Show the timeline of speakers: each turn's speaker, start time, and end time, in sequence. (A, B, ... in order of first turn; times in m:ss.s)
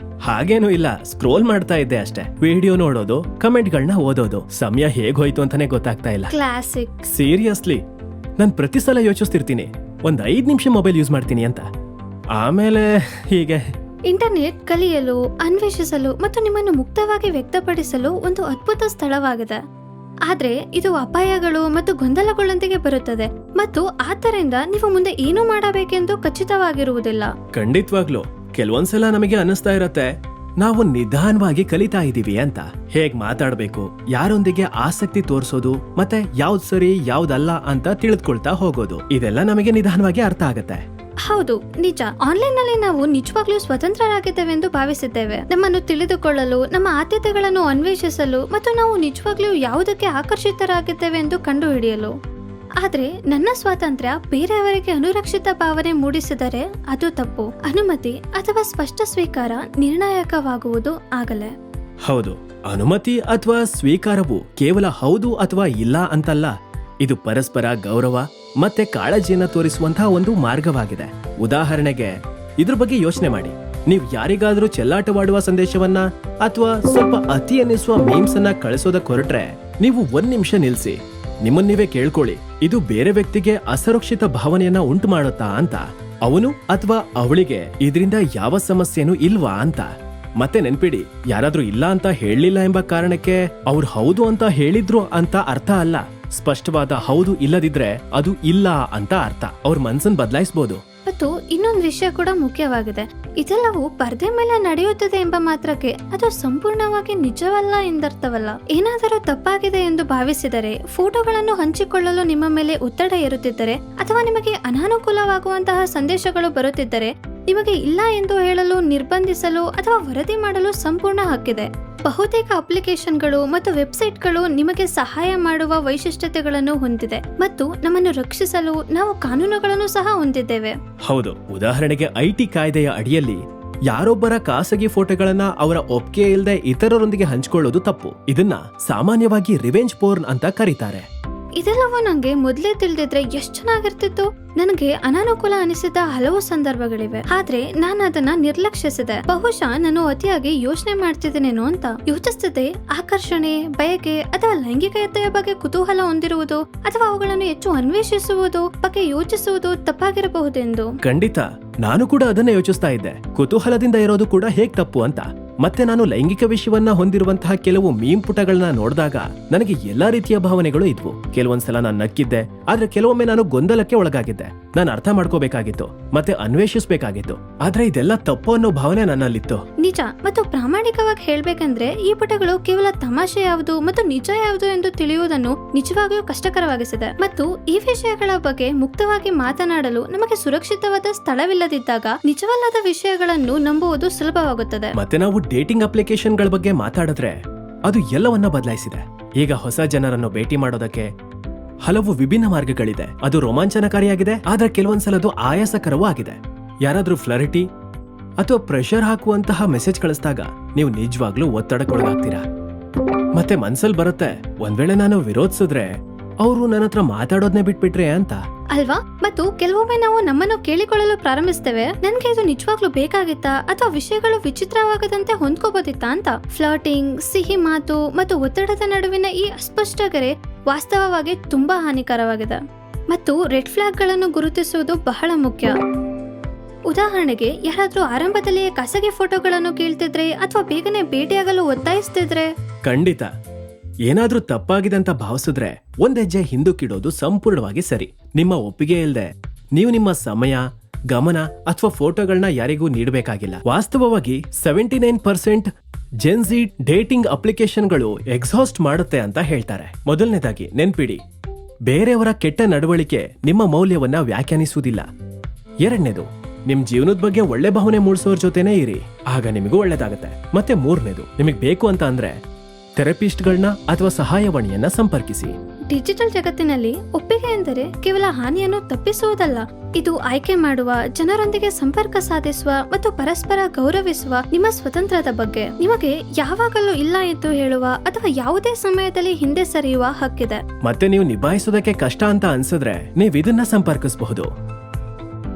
0:00.2-0:06.3 A
0:06.3-0:07.1 B
0:07.1-0:07.8 A
0:08.4-0:11.7 A
0:12.3-0:13.7 A
0:14.1-0:19.6 B
0:20.2-0:27.3 B
0:27.5-0:40.8 A
0:41.2-0:52.1 B
0:52.8-1:01.5 B
1:02.0-1:40.8 A
1:41.0-2:10.8 B
2:11.0-2:21.0 A
2:21.6-2:41.0 B
2:41.0-2:59.6 A
2:59.8-3:14.9 B
3:15.0-3:21.1 A
3:21.8-3:27.7 A
3:28.4-3:32.4 A
3:33.4-3:38.4 A
3:38.7-3:52.6 B
3:53.1-3:55.7 B
3:56.9-4:02.5 B
4:02.8-4:03.3 A
4:04.1-4:15.7 A
4:16.2-4:21.2 A
4:21.8-4:25.0 A
4:25.8-4:32.4 A
4:33.0-4:35.5 A
4:35.9-4:50.6 B
4:50.8-4:54.5 A